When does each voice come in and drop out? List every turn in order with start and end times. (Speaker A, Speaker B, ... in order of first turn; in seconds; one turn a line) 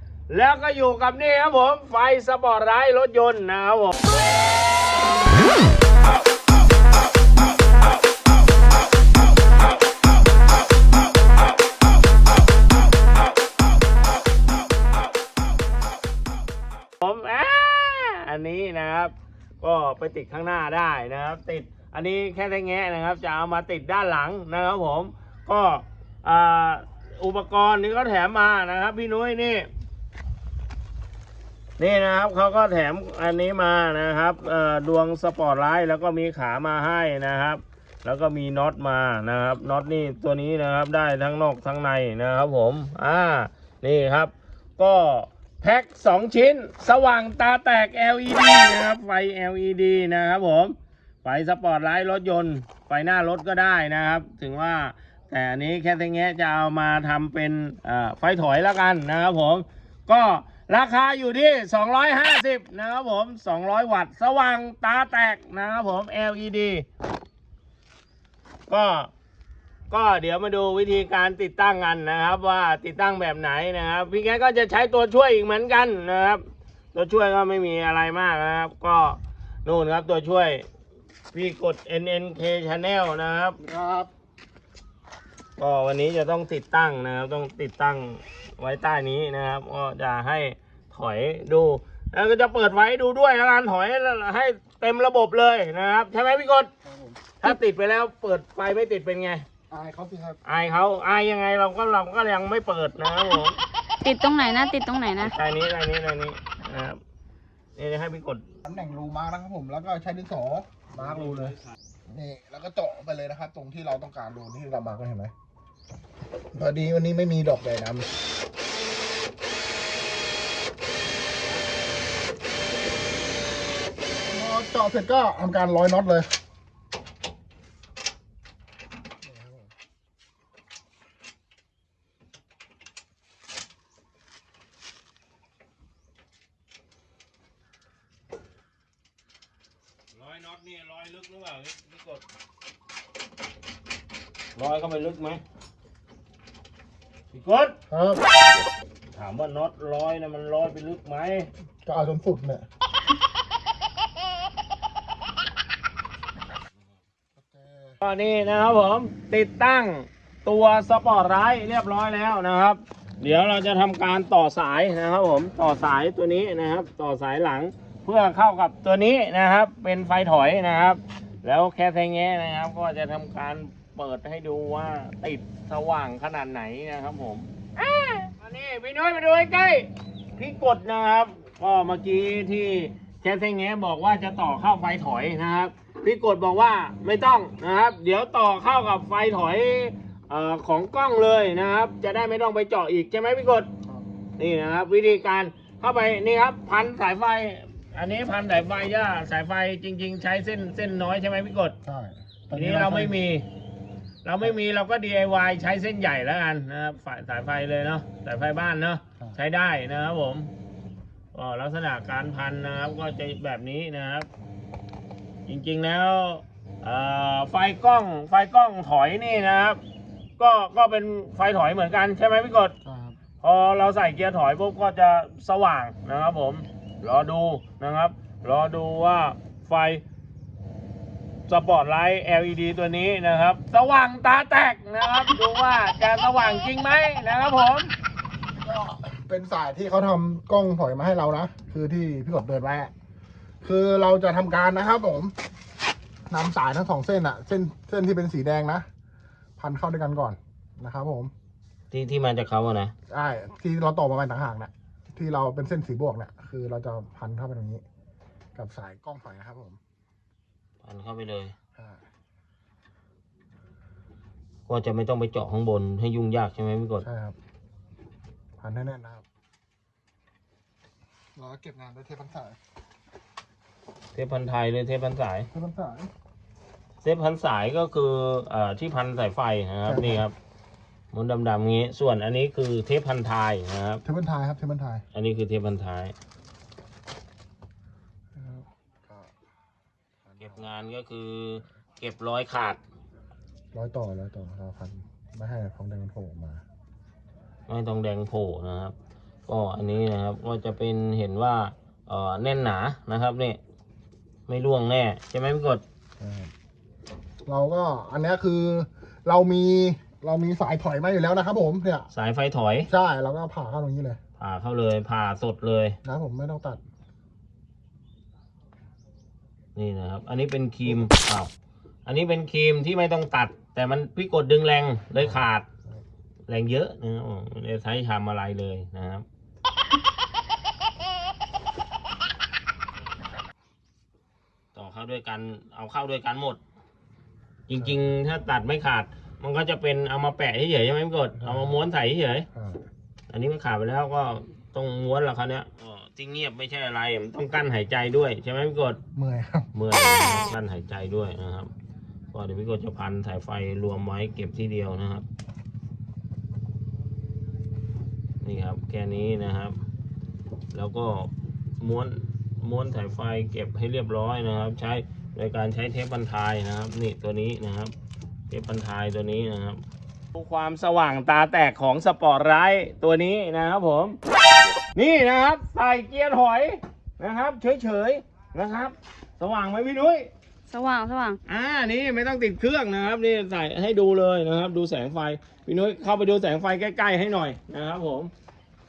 Speaker A: 0.3-4.0
Speaker A: 17.0-29.7
Speaker A: 31.8-66.9
Speaker A: 68.7-69.1
Speaker A: 69.9-76.4
Speaker A: 76.9-80.7
Speaker A: 81.3-83.6
Speaker B: 83.6-84.1
Speaker A: 85.6-96.7
Speaker B: 96.8-97.2
Speaker A: 97.4-99.5
Speaker B: 99.7-100.4
Speaker A: 100.5-103.6
Speaker C: 104.0-105.3
Speaker A: 105.2-107.0
Speaker A: 107.8-108.4
Speaker B: 108.7-111.6
Speaker B: 112.1-115.3
Speaker B: 116.5-118.1
Speaker B: 124.2-126.3
Speaker B: 129.2-129.7
Speaker A: 140.1-142.2
Speaker A: 144.6-145.4
Speaker A: 147.3-147.8
Speaker B: 147.9-148.2
Speaker A: 149.1-151.5
Speaker B: 151.8-152.7
Speaker B: 157.4-158.0
Speaker A: 158.0-193.7
Speaker A: 194.4-201.8
Speaker B: 201.8-203.2
Speaker A: 202.5-203.4
Speaker A: 204.2-210.5
Speaker A: 211.3-214.3
Speaker A: 215.5-219.8
Speaker A: 220.4-222.7
Speaker B: 222.8-223.2
Speaker A: 223.4-230.0
Speaker A: 231.5-237.9
Speaker B: 238.6-242.9
Speaker B: 243.6-245.3
Speaker B: 246.3-248.9
Speaker B: 249.6-251.3
Speaker A: 251.9-252.9
Speaker B: 253.1-257.8
Speaker B: 258.6-259.8
Speaker A: 260.8-261.5
Speaker B: 261.8-262.0
Speaker A: 264.7-267.1
Speaker B: 267.0-267.4
Speaker B: 268.6-269.2
Speaker B: 271.4-272.6
Speaker A: 274.1-275.5
Speaker B: 275.5-276.1
Speaker A: 277.0-280.4
Speaker B: 279.9-280.3
Speaker A: 281.1-284.0
Speaker B: 284.1-285.1
Speaker A: 285.1-286.1
Speaker B: 288.4-289.3
Speaker B: 290.2-290.6
Speaker A: 290.4-292.8
Speaker B: 293.7-296.6
Speaker A: 297.7-298.9
Speaker A: 299.5-303.6
Speaker A: 304.5-305.8
Speaker B: 306.2-306.5
Speaker B: 307.5-312.1
Speaker A: 312.1-312.9
Speaker B: 312.9-314.2
Speaker A: 314.4-316.0
Speaker B: 316.0-316.8
Speaker A: 319.8-321.5
Speaker A: 322.1-325.7
Speaker B: 325.2-326.0
Speaker A: 326.5-329.2
Speaker A: 334.8-336.6
Speaker A: 337.7-342.5
Speaker B: 341.4-341.8
Speaker B: 342.5-342.9
Speaker A: 343.3-349.0
Speaker B: 349.1-349.7
Speaker A: 349.7-351.7
Speaker A: 352.3-355.3
Speaker A: 358.4-359.8
Speaker A: 360.7-367.9
Speaker A: 368.5-369.8
Speaker A: 370.4-374.2
Speaker A: 374.9-380.3
Speaker C: 380.7-381.4
Speaker A: 381.5-388.3